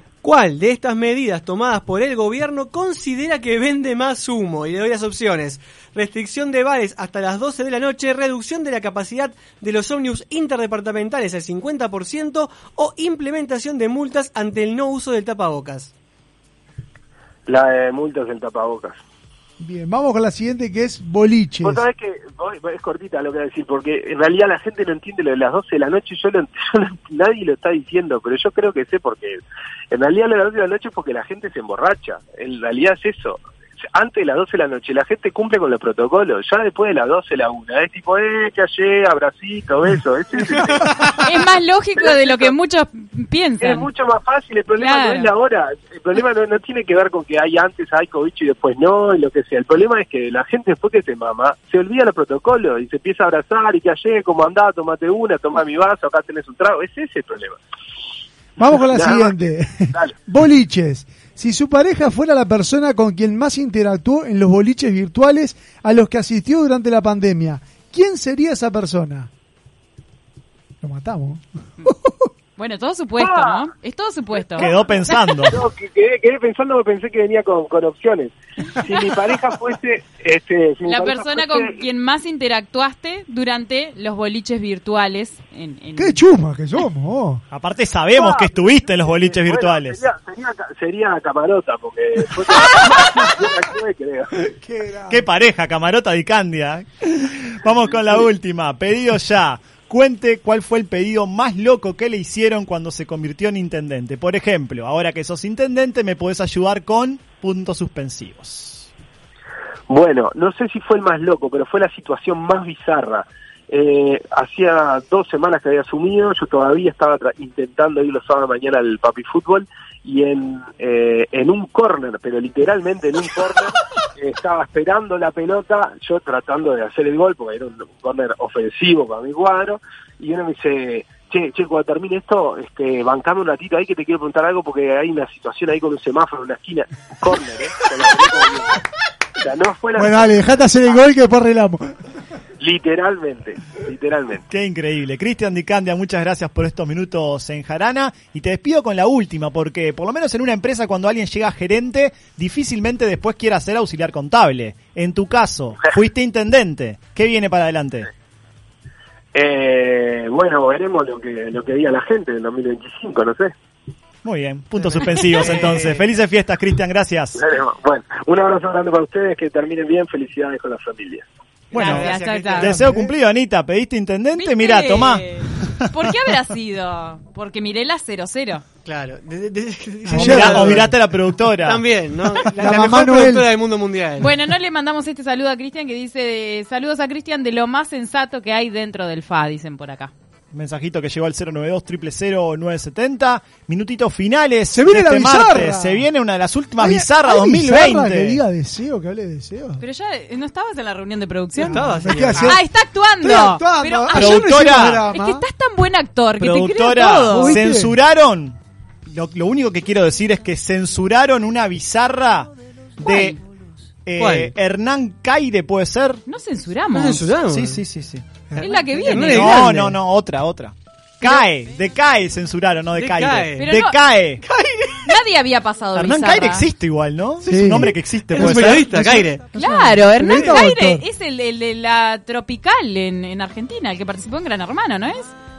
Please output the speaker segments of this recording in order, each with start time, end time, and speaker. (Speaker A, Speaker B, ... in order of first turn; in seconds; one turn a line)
Speaker A: 0.2-15.9
Speaker B: 17.5-19.0
Speaker C: 19.6-21.8
Speaker B: 21.6-29.4
Speaker B: 29.9-33.4
Speaker B: 33.9-41.1
Speaker D: 41.2-43.9
Speaker B: 42.0-42.5
Speaker B: 43.6-57.6
Speaker D: 44.8-45.3
Speaker C: 58.6-69.3
Speaker B: 58.9-59.4
Speaker C: 70.8-72.3
Speaker D: 72.6-74.7
Speaker B: 73.2-73.6
Speaker E: 74.6-75.6
Speaker B: 75.4-81.8
Speaker D: 80.8-86.2
Speaker C: 86.0-87.4
Speaker E: 87.5-90.0
Speaker B: 88.1-94.3
Speaker C: 94.4-95.2
Speaker E: 95.1-108.9
Speaker B: 109.9-138.8
Speaker B: 139.4-141.0
Speaker C: 139.9-141.9
Speaker B: 142.6-144.4
Speaker E: 144.5-158.1
Speaker B: 159.3-163.5
Speaker E: 164.2-167.4
Speaker A: 164.8-166.0
Speaker B: 167.3-171.2
Speaker E: 171.7-175.3
Speaker A: 171.7-172.8
Speaker D: 171.7-172.8
Speaker C: 172.7-173.1
Speaker D: 174.3-178.6
Speaker A: 178.8-181.0
Speaker C: 180.1-180.9
Speaker E: 180.1-181.9
Speaker A: 181.6-184.4
Speaker C: 182.6-183.5
Speaker D: 184.2-190.1
Speaker E: 190.5-198.4
Speaker C: 194.7-196.1
Speaker C: 196.8-199.8
Speaker D: 199.8-207.6
Speaker C: 201.6-202.6
Speaker A: 201.6-202.6
Speaker C: 203.2-205.4
Speaker E: 204.1-205.0
Speaker E: 206.4-213.4
Speaker C: 207.2-207.9
Speaker D: 213.0-213.3
Speaker E: 214.0-216.2
Speaker A: 214.2-214.5
Speaker D: 216.3-217.2
Speaker A: 216.9-217.8
Speaker E: 217.5-218.2
Speaker A: 218.5-219.9
Speaker D: 218.6-219.7
Speaker E: 219.1-224.4
Speaker A: 223.0-223.7
Speaker D: 223.6-223.9
Speaker A: 224.4-225.1
Speaker D: 225.0-226.6
Speaker E: 225.9-229.2
Speaker C: 227.4-231.0
Speaker A: 228.3-229.4
Speaker D: 229.5-235.3